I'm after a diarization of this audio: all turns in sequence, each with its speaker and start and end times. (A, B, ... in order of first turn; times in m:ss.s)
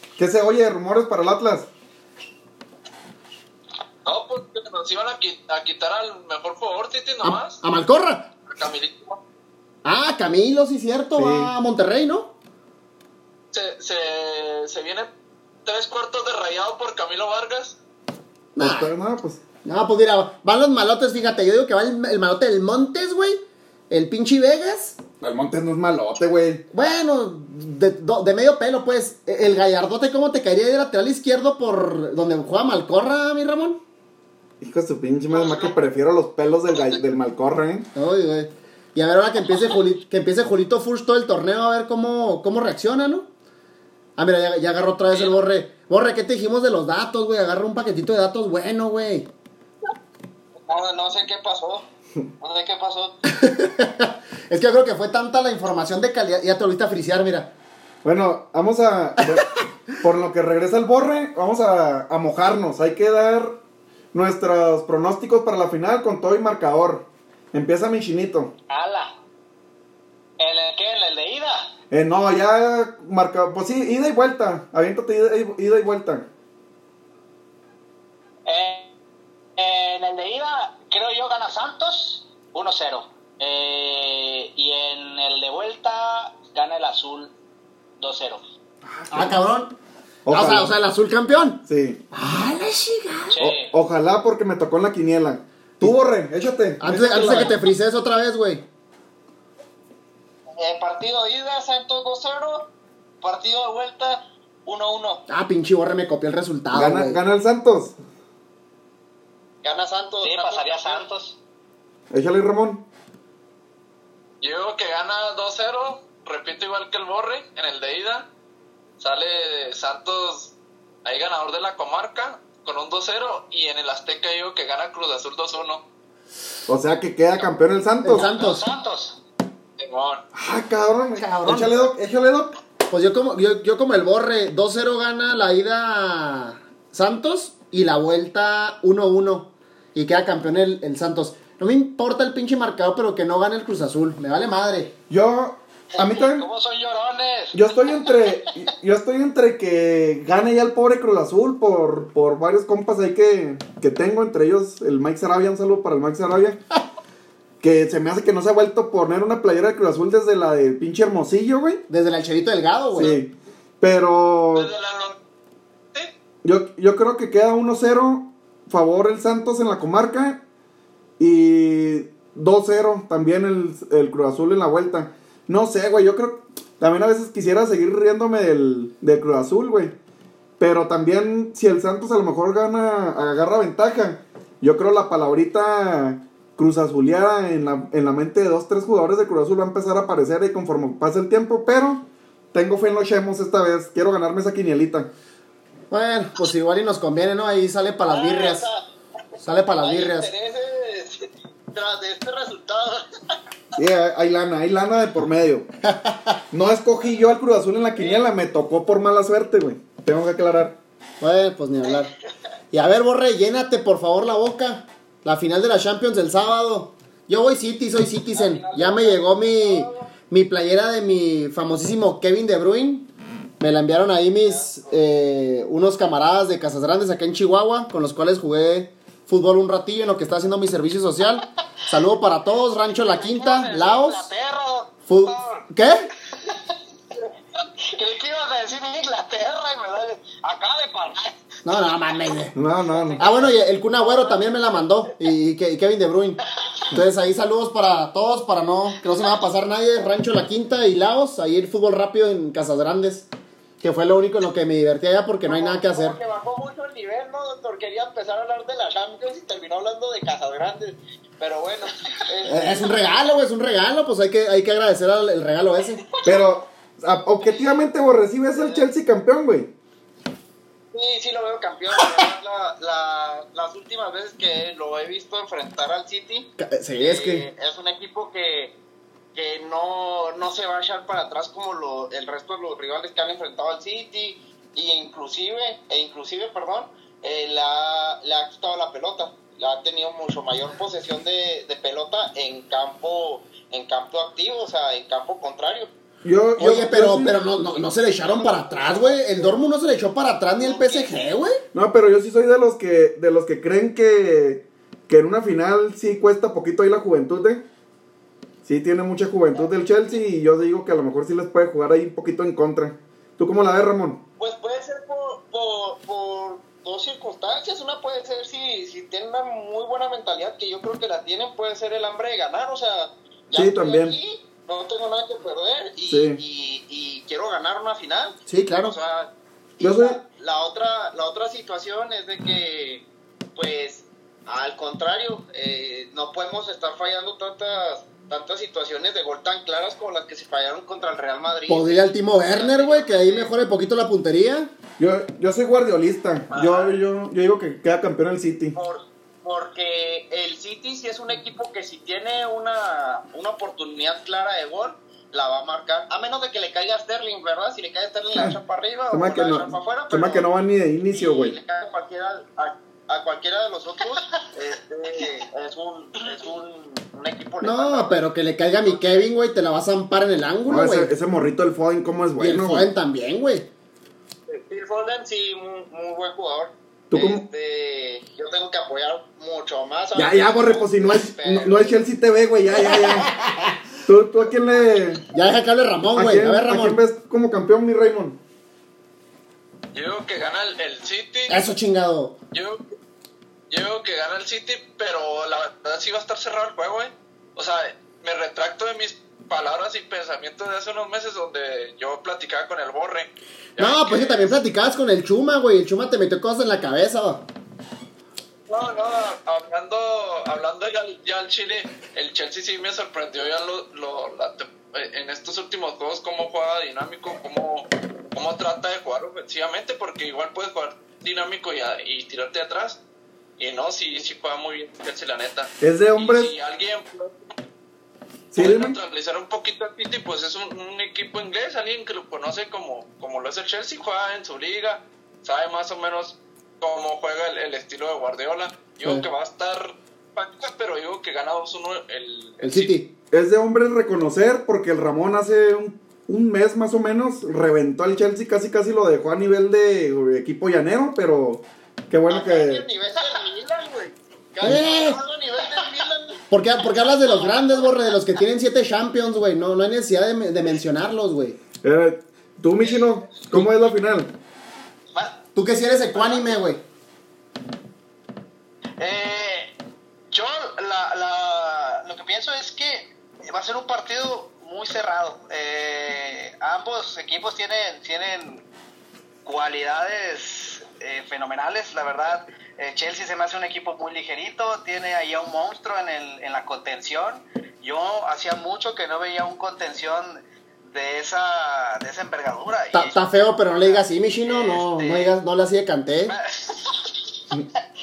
0:00.2-0:01.7 A
0:04.0-0:07.6 B
0:07.2-0:08.3 C
0:08.5-0:09.2 B
0:09.8-0:12.3 C
0:11.2-0:11.5 A
0:13.5-0:15.1 B
0:15.6-0:17.8 B
0:18.6-0:18.9 C
0:18.6-0:19.4 A
0:19.6-0:25.0 C
0:25.2-0:26.6 A
0:26.7-0:33.8 C
0:34.6-0:37.9 A
0:38.0-0:43.3 C
0:44.2-0:49.3 C
0:50.7-0:51.9 D
0:52.4-0:53.2 D
0:53.3-0:57.5 C
0:58.0-1:03.6 A
1:04.1-1:08.5 A
1:08.7-1:09.2 E
1:10.4-1:11.7 E
1:11.9-1:16.3 A
1:18.5-1:18.9 E
1:19.6-1:27.3 E
1:28.0-1:28.4 E
1:28.8-1:29.4 A
1:29.1-1:29.8 C
1:30.3-1:30.7 A
1:30.3-1:33.4 C
1:31.7-1:32.0 A
1:33.3-1:33.7 E
1:33.4-1:37.6 A
1:36.8-1:38.6 C
1:40.6-1:42.7 D
1:43.2-1:45.2 D
1:45.3-1:47.2 C
1:46.7-1:48.0 A
1:49.6-1:51.1 D
1:50.2-1:51.4 E
1:52.1-1:52.8 A
1:54.4-1:58.3 B
1:59.0-2:00.5 B
2:01.0-2:05.8 B
2:06.7-2:08.3 A
2:08.0-2:08.7 C
2:08.2-2:09.2 E
2:09.8-2:10.2 B
2:10.3-2:12.6 A
2:11.2-2:11.8 C
2:12.9-2:25.0 C
2:25.1-2:26.5 A
2:26.0-2:28.4 E
2:27.5-2:36.6 A
2:37.6-2:41.8 A
2:41.9-2:43.2 C
2:42.9-2:44.7 A
2:44.6-2:45.2 B
2:46.4-2:50.4 A
2:51.2-3:00.0 A
3:00.6-3:15.1 A
3:15.9-3:18.7 C
3:18.1-3:18.9 D
3:19.4-3:20.3 C
3:19.7-3:23.4 D
3:23.8-3:25.7 A
3:25.8-3:26.4 C
3:26.5-3:30.8 A
3:28.0-3:28.3 D
3:31.2-3:32.1 C
3:32.7-3:54.3 C
3:38.3-3:40.1 D
3:44.4-3:44.9 D
3:53.1-3:55.7 E
3:55.1-3:56.1 C
3:57.9-4:01.4 E
4:01.6-4:02.6 C
4:02.6-4:03.3 A
4:03.2-4:13.3 C
4:04.2-4:04.5 D
4:13.8-4:16.2 C
4:15.5-4:23.0 D
4:22.4-4:26.0 C
4:26.2-4:29.7 A
4:28.5-4:28.9 D
4:30.9-4:38.8 D
4:36.6-4:37.5 C
4:39.3-4:55.9 D
4:56.2-4:57.4 A
4:56.6-5:01.6 C
4:57.6-4:59.7 D
5:00.6-5:01.3 D
5:01.7-5:07.6 A
5:08.6-5:14.2 A
5:14.4-5:43.5 D
5:23.5-5:24.2 A
5:26.1-5:26.4 A
5:28.5-5:29.0 C
5:29.8-5:30.2 A
5:41.7-5:44.7 C
5:45.0-5:48.8 A
5:46.5-5:47.0 D
5:48.7-6:00.5 D
5:59.1-6:01.6 A
6:01.1-6:08.2 D
6:07.6-6:11.1 C
6:08.7-6:09.2 D
6:10.7-6:12.9 A
6:12.4-6:13.7 C
6:14.5-6:22.0 D
6:17.1-6:17.4 A
6:20.2-6:23.3 A
6:22.9-6:23.7 C
6:24.0-6:25.2 A
6:25.3-6:27.0 C
6:26.2-6:28.4 A
6:29.9-6:31.6 B
6:31.5-6:32.4 C
6:32.5-6:32.8 B
6:33.7-6:44.5 B
6:43.8-6:47.4 C
6:48.7-7:03.0 B
7:03.6-7:07.3 B
7:05.8-7:06.5 A
7:08.5-7:09.0 A
7:08.6-7:22.9 B
7:22.6-7:23.1 C
7:23.3-7:32.9 A
7:32.3-7:36.4 D
7:34.6-7:35.2 C
7:36.5-7:41.6 C
7:41.8-7:44.3 A
7:45.1-7:45.4 E
7:45.6-7:46.8 C
7:49.0-7:49.8 E
7:50.3-7:58.7 E
7:59.4-8:15.3 E
8:12.9-8:16.4 C
8:16.3-8:17.2 E